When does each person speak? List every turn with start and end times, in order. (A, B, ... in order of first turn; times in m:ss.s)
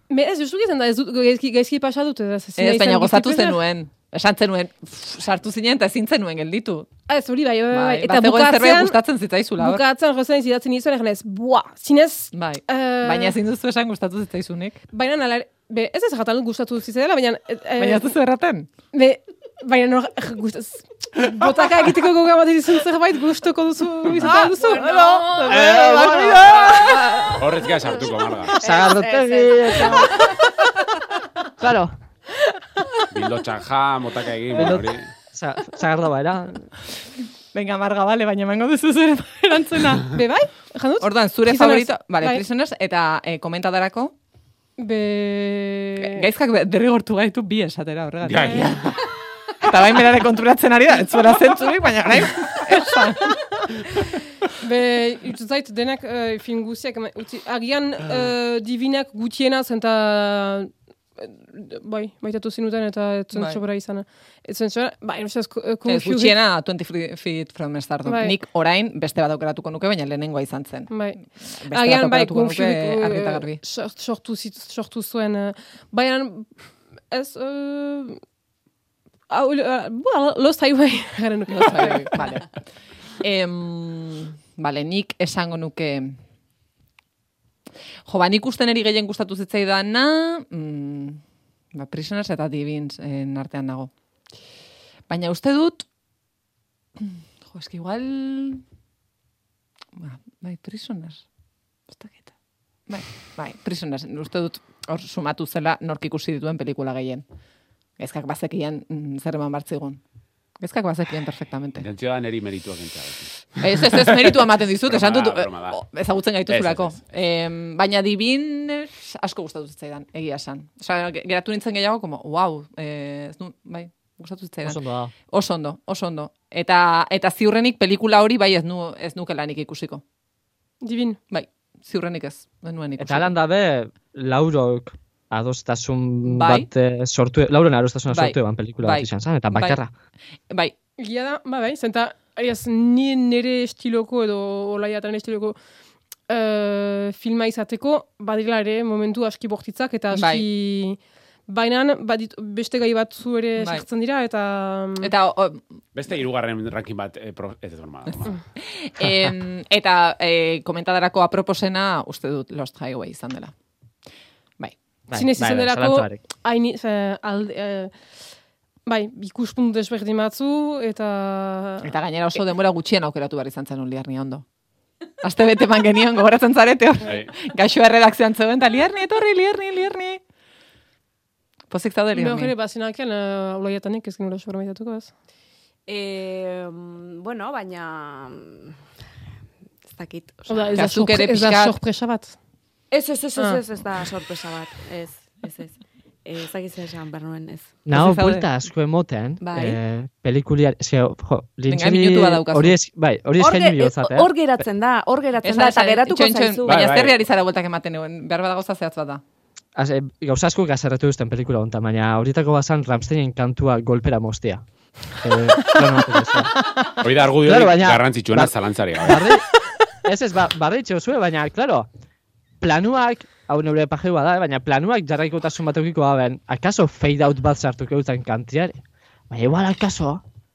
0:00.1-0:03.6 A
0:02.6-0:06.9 B
0:07.1-0:09.0 A
0:07.7-0:09.8 B
0:09.6-0:13.4 A
0:12.3-0:14.8 B
0:14.9-0:18.0 A
0:17.8-0:18.7 B
0:18.9-0:27.4 A
0:24.2-0:27.4 B
0:24.6-0:25.1 C
0:25.5-0:26.6 D
0:27.4-0:28.6 E
0:28.6-0:30.1 C
0:28.6-0:30.2 D
0:29.8-0:30.5 A
0:31.6-0:32.0 D
0:32.5-0:33.1 A
0:33.1-0:35.1 E
0:34.6-0:36.7 D
0:37.5-0:40.1 B
0:40.1-0:42.4 A
0:41.0-0:44.1 B
0:44.8-0:46.3 A
0:46.0-0:49.0 B
0:48.2-0:48.9 E
0:49.6-0:53.6 B
0:54.6-1:06.4 A
1:03.3-1:03.6 B
1:05.8-1:13.6 B
1:08.0-1:08.4 A
1:10.9-1:18.2 A
1:19.3-1:22.4 A
1:21.5-1:22.7 B
1:23.2-1:26.2 B
1:28.1-1:31.2 B
1:31.7-1:33.9 B
1:35.1-1:35.9 B
1:37.0-1:38.6 B
1:40.0-1:41.3 B
1:41.9-1:42.3 B
1:42.9-1:47.2 B
1:48.0-1:50.0 B
1:50.6-1:51.9 B
1:51.8-1:55.8 E
1:53.6-2:10.0 B
1:56.5-1:57.0 E
2:04.6-2:05.1 D
2:10.8-2:11.2 A
2:11.3-2:13.3 B
2:13.0-2:19.9 D
2:16.2-2:16.7 B
2:18.1-2:19.8 B
2:20.5-2:20.7 B
2:21.0-2:25.6 A
2:26.3-2:35.1 A
2:30.1-2:30.4 B
2:33.6-2:33.8 B
2:35.0-2:35.8 B
2:36.0-2:38.4 E
2:38.0-2:43.6 B
2:45.1-2:46.2 D
2:45.1-2:48.2 A
2:48.9-2:51.9 A
2:51.8-2:54.4 B
2:55.2-3:00.2 B
2:57.0-2:57.3 E
3:01.7-3:02.5 B
3:02.1-3:05.1 A
3:05.9-3:08.7 C
3:09.9-3:10.8 C
3:10.5-3:12.4 A
3:10.7-3:11.7 B
3:12.9-3:17.7 C
3:17.9-3:24.3 D
3:17.9-3:18.4 B
3:19.4-3:19.8 C
3:21.7-3:22.8 B
3:23.4-3:27.0 C
3:25.4-3:29.2 B
3:26.6-3:27.1 E
3:29.8-3:36.6 D
3:37.0-3:39.4 E
3:37.4-3:39.5 D
3:40.0-3:41.9 D
3:42.6-3:50.2 D